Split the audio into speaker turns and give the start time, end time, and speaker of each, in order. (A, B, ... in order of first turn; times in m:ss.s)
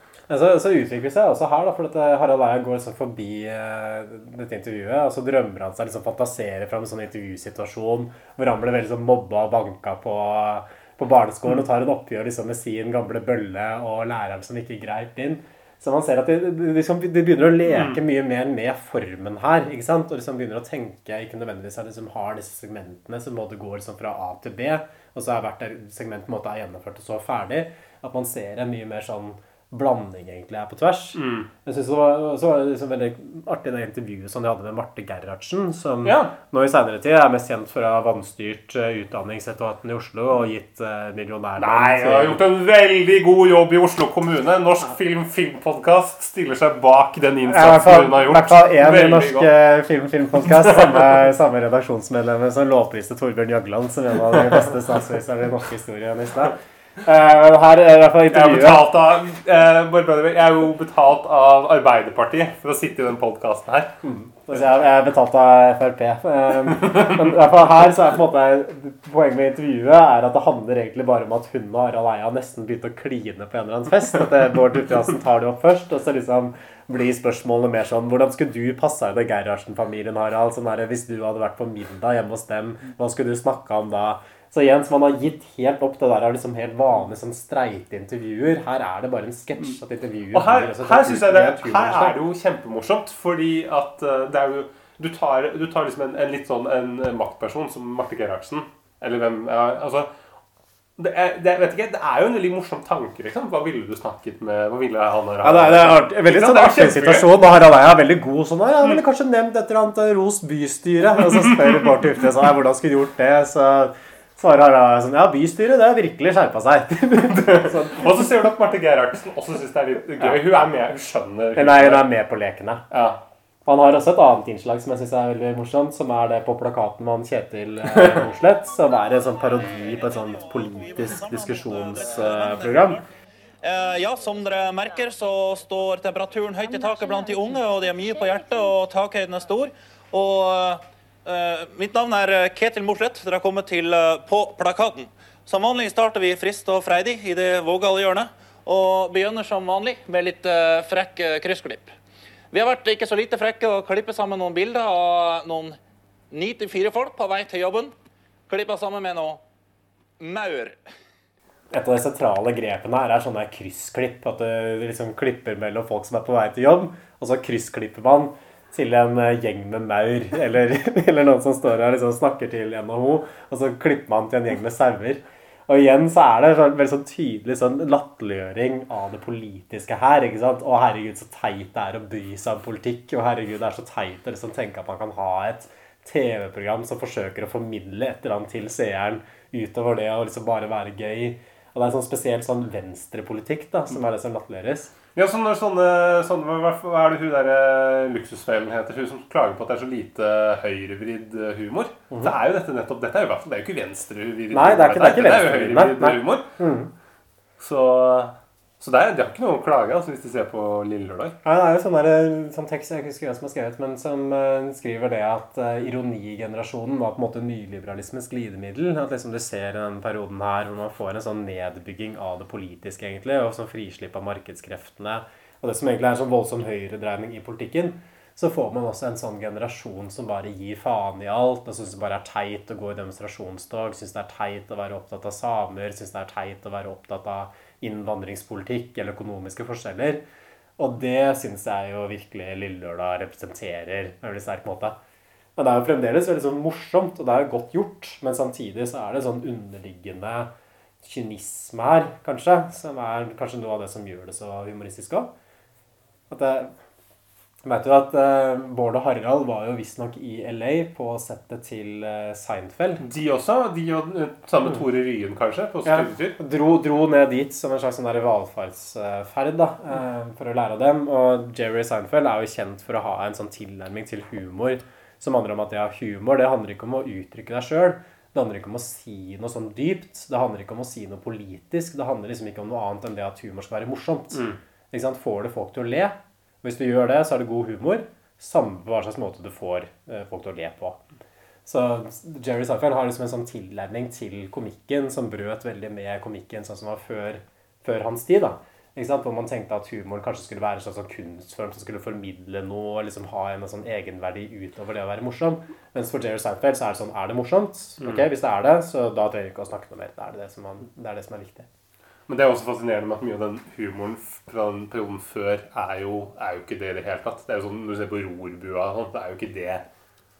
0:00.3-0:42.4 A
0:17.7-0:18.0 B
0:31.1-0:31.5 B
0:36.0-0:36.3 B
0:41.6-0:49.5 B
0:47.5-0:58.9 A
0:58.3-1:03.9 B
1:04.0-1:32.2 A
1:30.3-1:40.1 B
1:41.0-1:47.3 B
1:45.4-1:58.1 A
1:57.2-2:02.1 B
2:00.2-2:00.7 A
2:01.6-2:02.8 A
2:02.9-2:03.2 B
2:03.6-2:13.0 A
2:07.9-2:08.2 B
2:11.2-2:13.0 C
2:13.6-2:31.9 C
2:32.5-2:35.8 C
2:36.3-2:37.9 C
2:38.5-2:39.4 C
2:40.2-2:40.8 C
2:41.7-3:14.9 A
3:15.1-3:26.5 B
3:24.5-3:26.9 A
3:27.6-3:31.4 B
3:31.4-4:00.2 A
4:00.8-4:05.0 A
4:05.6-4:10.5 A
4:11.0-4:15.3 A
4:16.3-4:16.7 A
4:17.6-4:23.0 A
4:23.0-4:26.4 B
4:25.8-4:51.0 A
4:44.3-4:44.6 B
4:51.6-5:11.7 A
5:08.0-5:08.2 B
5:12.3-5:19.8 B